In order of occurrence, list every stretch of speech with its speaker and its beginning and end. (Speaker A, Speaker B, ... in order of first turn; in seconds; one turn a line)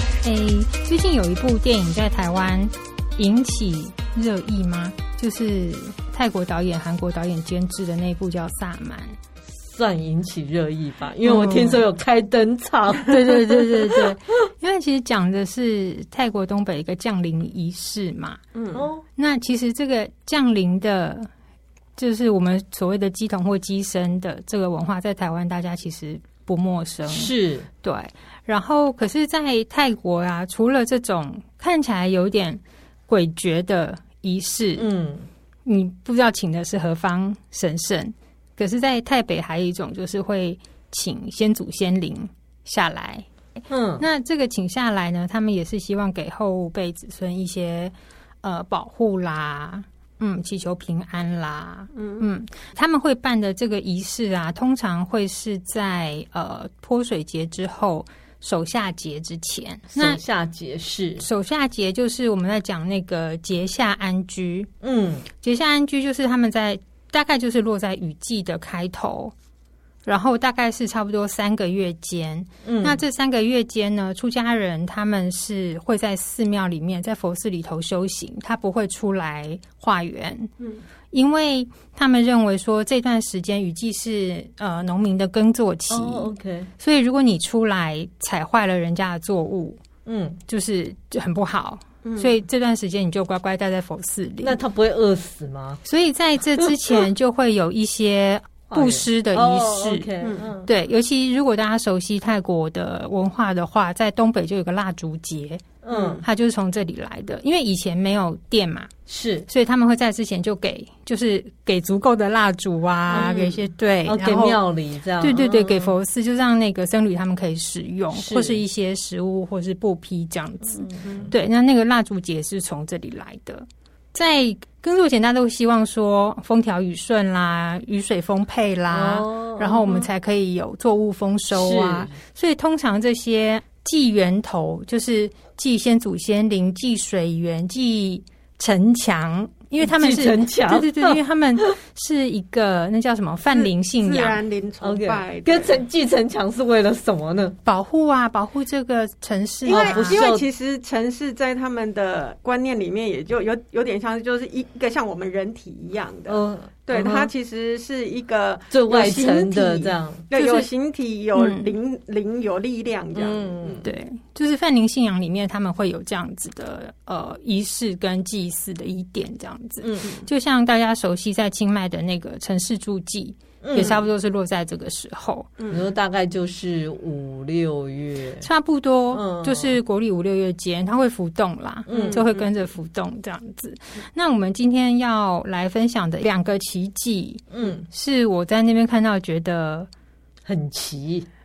Speaker A: 0.2-9.2
Speaker B: 9.5-14.0
Speaker A: 11.2-11.8
Speaker A: 13.1-18.4
Speaker C: 18.5-18.9
Speaker B: 18.7-19.0
Speaker A: 19.2-21.3
Speaker A: 22.0-34.9
Speaker B: 27.1-27.7
Speaker B: 34.8-35.3
Speaker A: 35.6-60.2
Speaker B: 43.7-44.0
Speaker C: 51.9-52.2
Speaker B: 59.9-61.2
Speaker A: 61.2-64.7
Speaker B: 64.8-65.2
Speaker A: 65.4-69.3
Speaker A: 70.0-80.5
Speaker B: 72.6-73.0
Speaker A: 81.1-89.8
Speaker B: 85.9-86.7
Speaker B: 90.0-90.4
Speaker A: 90.5-94.6
Speaker C: 92.0-92.3
Speaker B: 94.4-95.8
Speaker A: 95.8-100.1
Speaker B: 98.7-100.7
Speaker C: 100.2-100.5
Speaker A: 100.6-105.7
Speaker B: 105.8-106.2
Speaker C: 105.9-106.2
Speaker A: 106.2-108.9
Speaker B: 109.1-109.5
Speaker A: 109.5-114.6
Speaker B: 113.1-115.9
Speaker A: 115.2-144.4
Speaker B: 118.1-118.6
Speaker B: 120.8-121.3
Speaker B: 128.9-130.0
Speaker B: 131.5-132.1
Speaker B: 139.8-141.2
Speaker C: 143.5-145.8
Speaker B: 144.8-147.6
Speaker A: 147.6-150.2
Speaker C: 149.6-163.8
Speaker B: 149.7-150.4
Speaker B: 156.3-157.3
Speaker B: 158.7-160.7
Speaker A: 161.3-161.7
Speaker B: 163.1-163.9
Speaker A: 163.8-175.5
Speaker B: 169.8-170.2
Speaker B: 173.6-174.0
Speaker C: 175.6-175.8
Speaker B: 175.7-178.4
Speaker A: 178.4-189.9
Speaker B: 179.1-179.7
Speaker B: 181.9-182.2
Speaker C: 181.9-182.4
Speaker B: 187.5-187.9
Speaker B: 190.4-191.3